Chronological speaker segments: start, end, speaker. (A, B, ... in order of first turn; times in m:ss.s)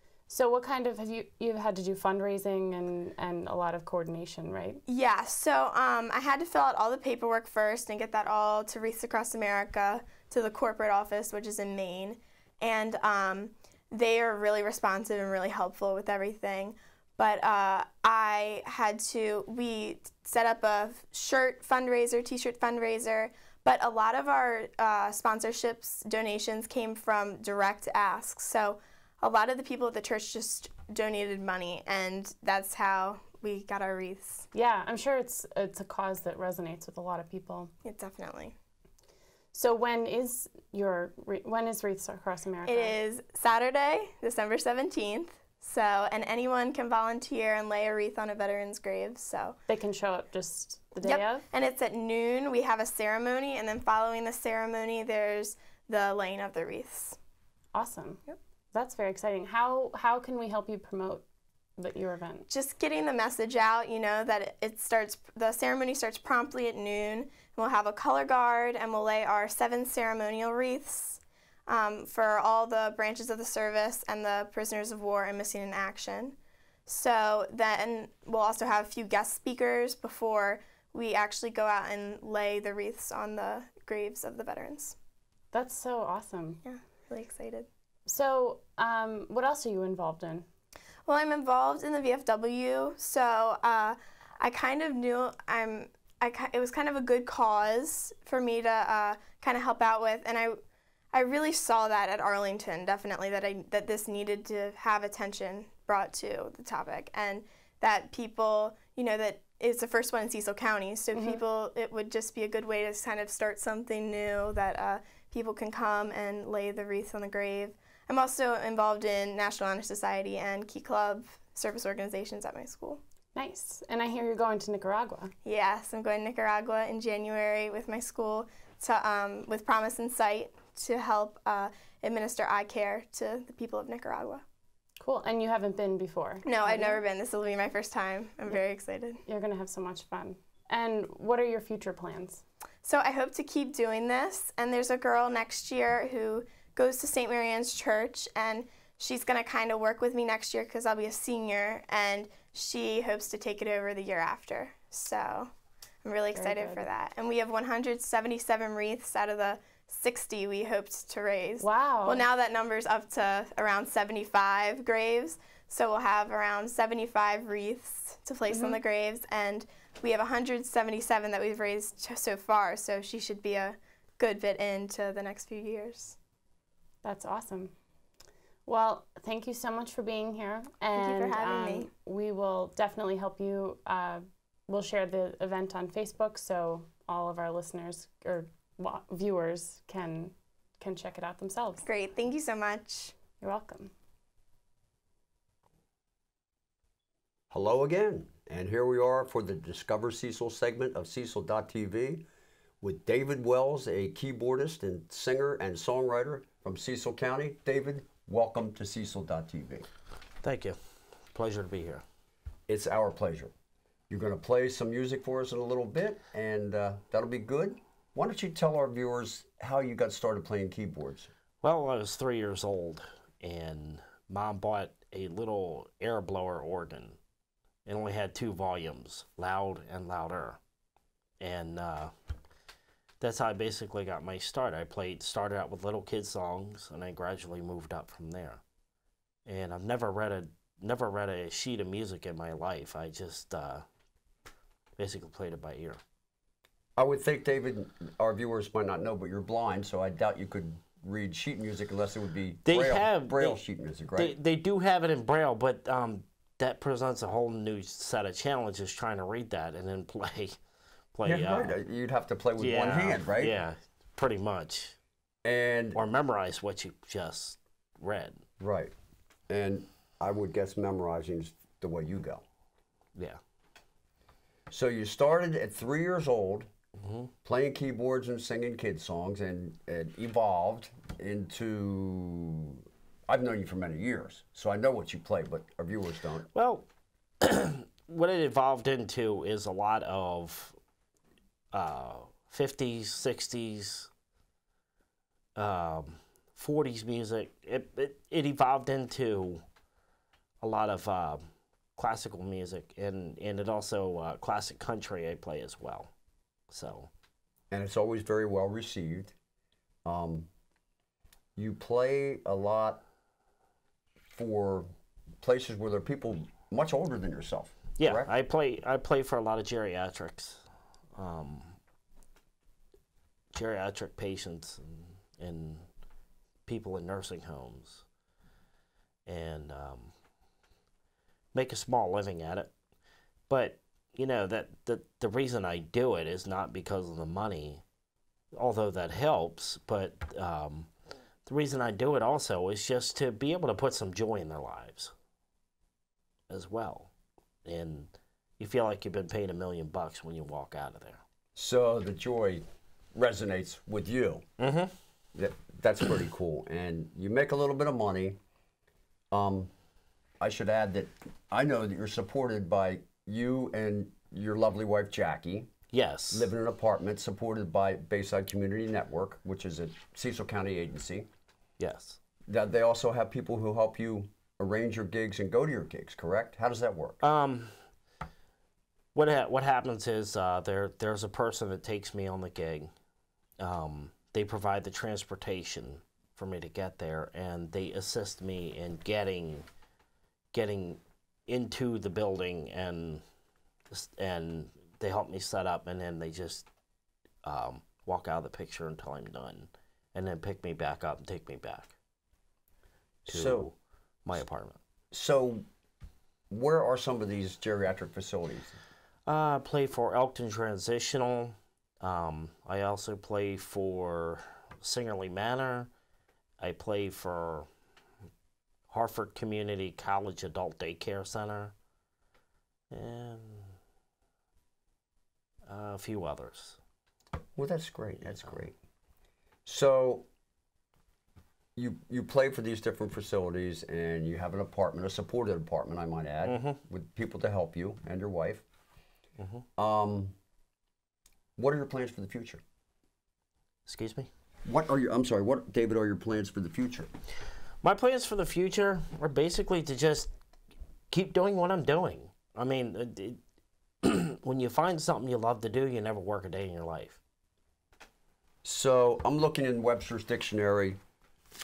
0:00.3-0:04.8 A
0:04.8-0:34.4 B
0:34.5-0:37.7 A
0:37.8-0:38.5 B
0:39.5-0:43.0 A
0:42.6-0:49.6 B
0:49.7-0:51.4 A
0:51.0-0:57.2 B
0:57.7-1:01.2 A
1:01.8-1:02.5 A
1:02.5-1:16.4 B
1:16.9-1:24.9 B
1:25.5-1:26.6 A
1:26.6-1:27.7 B
1:28.0-1:30.4 A
1:31.0-1:40.6 B
1:41.1-2:03.0 B
1:51.1-1:51.4 A
2:03.3-2:05.3 A
2:05.4-2:14.4 B
2:15.0-2:17.0 A
2:16.4-2:19.2 B
2:19.2-2:22.4 A
2:22.8-2:35.5 B
2:36.0-2:56.2 B
2:36.3-2:36.9 A
2:41.6-2:42.2 A
2:48.5-2:48.8 A
2:57.0-2:57.7 A
2:58.6-3:11.9 A
3:00.9-3:01.9 B
3:11.8-3:13.1 B
3:13.4-3:13.9 A
3:17.5-3:22.2 C
3:22.8-3:29.9 C
3:30.4-3:30.8 D
3:31.3-3:32.0 D
3:32.7-3:33.5 C
3:34.1-3:41.3 C
3:41.6-3:47.2 D
3:47.8-3:50.6 D
3:51.4-3:52.1 D
3:53.2-3:58.6 D
3:59.4-4:03.8 D
4:05.0-4:06.0 D
4:07.0-4:14.4 C
4:12.6-4:13.6 D
4:14.2-4:20.6 D
4:21.1-4:21.8 D
4:21.2-4:23.5 C
4:22.6-4:25.0 D
4:25.4-4:26.0 C
4:25.9-4:28.4 D
4:28.6-4:28.9 C
4:29.5-4:32.4 C
4:34.7-4:36.7 C
4:37.0-4:37.3 D
4:37.4-4:46.5 C
4:46.5-4:46.8 D
4:47.4-4:50.8 D
4:51.7-4:54.1 D
4:55.6-4:59.6 D
5:00.6-5:01.4 D
5:02.0-5:06.1 D
5:06.7-5:07.1 D
5:07.7-5:09.3 C
5:10.0-5:10.5 C
5:11.6-5:13.0 C
5:14.3-5:14.9 C
5:15.4-5:18.3 C
5:18.0-5:20.6 D
5:21.1-5:21.8 D
5:23.5-5:25.8 D
5:26.7-5:28.0 D
5:29.2-5:30.1 D
5:31.5-5:32.7 D
5:33.5-5:37.8 D
5:38.5-5:40.9 D
5:41.4-5:45.1 D
5:46.5-5:47.1 D
5:47.6-5:51.2 D
5:51.5-5:54.4 C
5:54.6-5:54.9 D
5:55.3-5:58.4 C
5:59.3-5:59.7 C
6:00.4-6:05.7 C
6:05.9-6:06.5 D
6:06.3-6:11.3 C
6:11.8-6:12.2 D
6:12.5-6:17.2 C
6:17.2-6:17.7 D
6:19.1-6:22.9 D
6:23.6-6:29.6 D
6:30.5-6:33.2 D
6:33.9-6:36.6 D
6:37.4-6:41.9 D
6:43.2-6:43.7 C
6:43.3-6:43.7 D
6:44.2-6:44.8 D
6:45.1-6:45.6 C
6:46.5-6:48.7 C
6:49.3-6:55.9 D
6:56.6-6:57.6 D
6:58.9-7:01.7 D
7:02.9-7:03.7 D
7:05.7-7:06.8 D
7:07.6-7:08.7 C
7:09.6-7:10.3 C
7:11.8-7:18.6 C
7:16.4-7:16.8 D
7:19.4-7:19.6 D
7:19.8-7:20.3 C
7:21.6-7:22.6 C
7:23.8-7:24.3 D
7:24.6-7:27.1 C
7:27.8-7:30.3 D
7:31.1-7:33.4 D
7:34.0-7:37.2 D
7:38.6-7:41.0 C